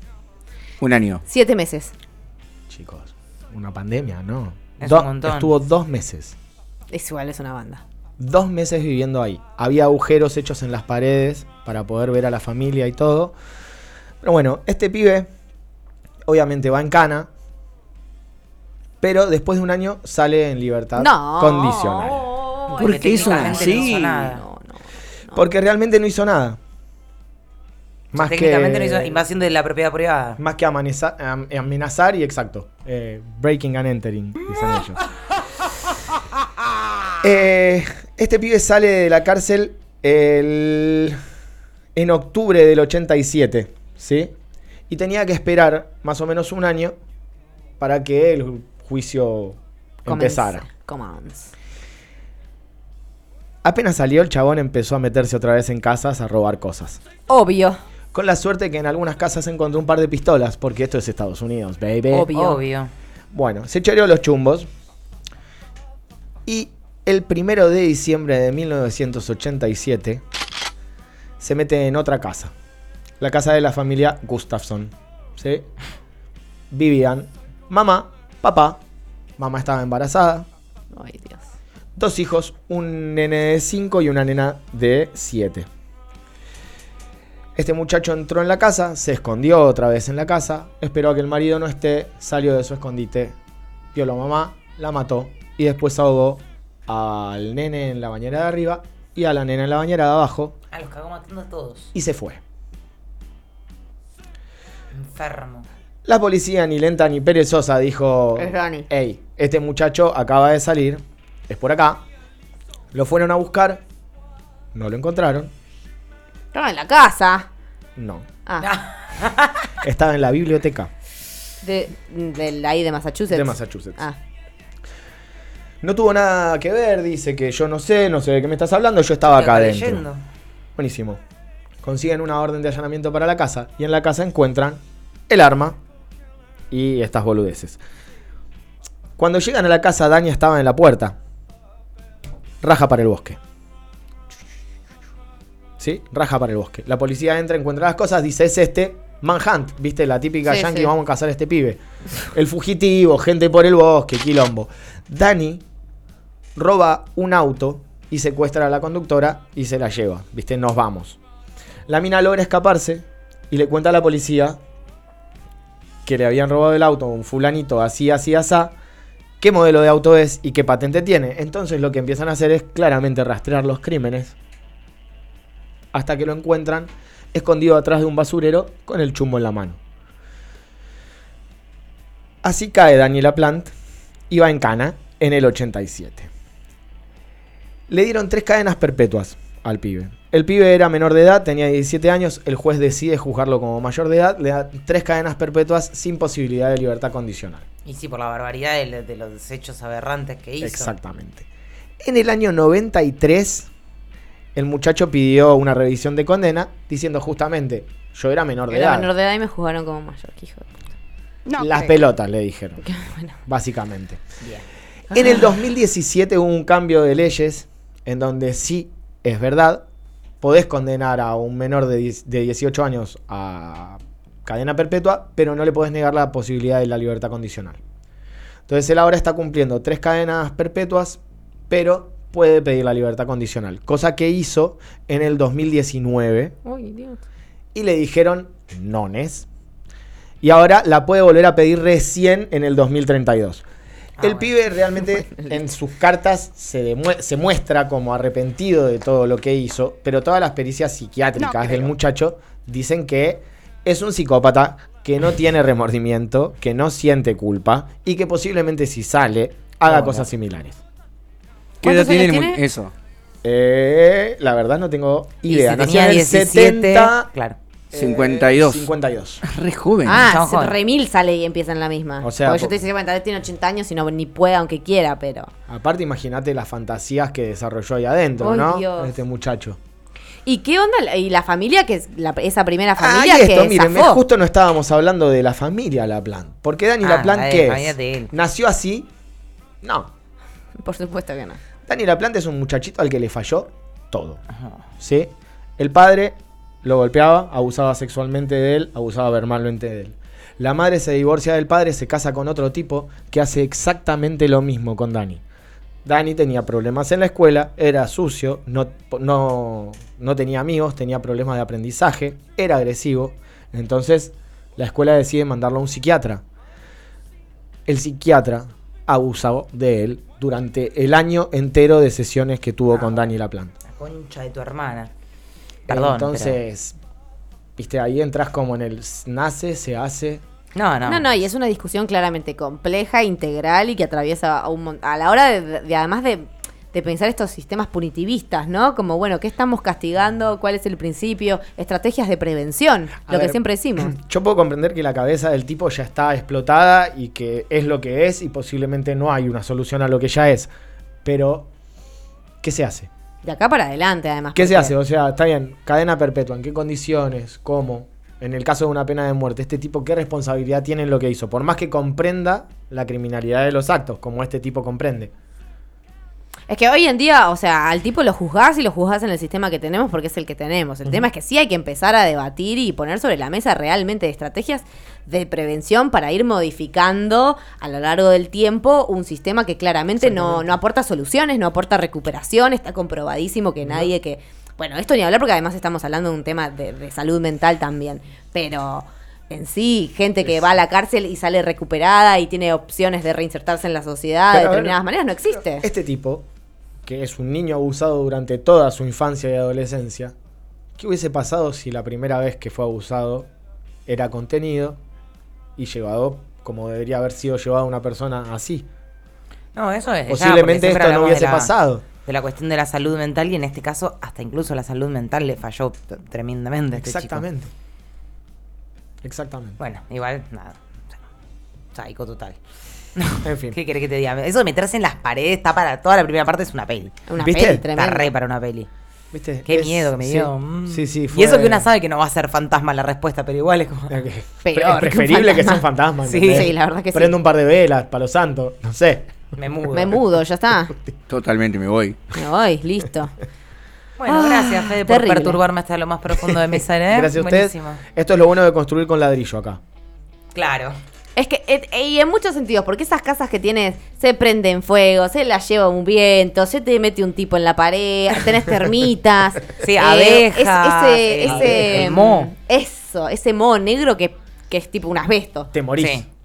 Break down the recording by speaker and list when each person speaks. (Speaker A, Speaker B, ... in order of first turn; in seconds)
Speaker A: 0.8-1.2, 22.7-24.3, 261.8-262.9, 267.9-268.9, 269.4-270.3, 441.3-442.2
Speaker B: 1.2-1.9, 6.9-7.8, 20.9-25.5, 50.1-51.5, 57.3-57.8, 62.1-62.6, 80.9-81.4, 108.4-108.9, 116.5-117.5, 118.5-118.7, 121.6-124.2, 150.4-150.9, 208.7-210.9, 212.9-213.3, 236.7-237.2, 245.2-245.6, 261.8-262.6, 270.1-275.5, 278.4-279.2, 280.4-284.2, 290.8-291.6, 331.1-344.1, 353.4-354.9, 366.7-395.9, 427.3-428.3, 434.6-435.8, 436.4-437.4, 439.9-440.9, 442.3-443.3, 444.3-445.6, 451.4-465.7
Speaker C: 2.7-6.4, 8.2-13.3, 14.2-15.3, 16.2-17.3, 19.0-22.3, 25.3-26.6, 28.1-29.2, 30.4-35.0, 37.2-41.2, 41.9-44.3, 44.9-47.0, 47.8-50.6, 53.6-57.0, 58.1-62.3, 63.3-64.7, 66.4-70.2, 71.4-72.5, 73.2-75.7, 76.7-78.8, 79.4-80.5, 82.0-85.7, 87.6-93.4, 93.9-100.5, 101.9-102.4, 106.0-112.0, 112.9-113.8, 114.7-115.5, 118.0-118.3, 119.8-120.9, 123.3-124.0, 125.8-130.1, 130.8-131.2, 131.8-135.8, 136.7-137.8, 139.2-141.2, 142.6-143.4, 145.8-155.6, 156.6-161.2, 161.9-164.6, 166.1-168.7, 169.4-174.3, 175.9-179.8, 182.4-183.7, 184.3-186.3, 187.9-197.7, 200.6-201.5, 202.0-203.7, 204.6-209.1, 211.6-212.8, 213.4-214.2, 215.1-219.8, 220.4-227.8, 228.7-236.6, 237.7-239.5, 240.4-243.7, 244.2-260.8, 263.4-267.3, 267.9-269.4, 272.2-272.8, 275.7-279.8, 283.0-289.1, 289.8-290.1, 291.9-294.4, 295.0-305.4, 306.1-316.4, 317.9-323.7, 325.9-327.0, 327.8-330.4, 343.3-350.7, 351.2-351.7, 352.6-353.1, 354.6-365.3, 380.3-380.6, 383.9-384.1, 394.5-395.0, 395.5-396.4, 397.1-400.3, 401.0-403.5, 404.1-405.0, 405.8-408.9, 410.3-412.1, 416.9-417.7, 419.2-419.8, 423.4-423.8, 427.4-427.9, 429.3-431.9, 434.1-439.5, 447.1-449.8, 461.4-462.1, 465.7-466.2
Speaker D: 4.8-5.5, 22.7-24.4, 28.1-30.4, 62.3-62.9, 100.7-101.9, 104.9-105.7, 118.6-119.7, 129.3-130.2, 197.8-200.9, 244.2-244.5, 259.9-260.2, 265.5-267.6, 270.1-270.8, 287.0-288.3, 322.9-323.3, 323.9-325.1, 325.9-326.6, 330.7-331.3, 409.7-411.7, 412.2-417.4, 419.8-420.8, 421.9-422.6, 423.2-427.2, 427.9-428.9, 429.6-434.2, 436.3-436.7, 439.6-440.2, 444.2-448.0, 450.5-450.9, 459.8-462.5, 466.0-466.3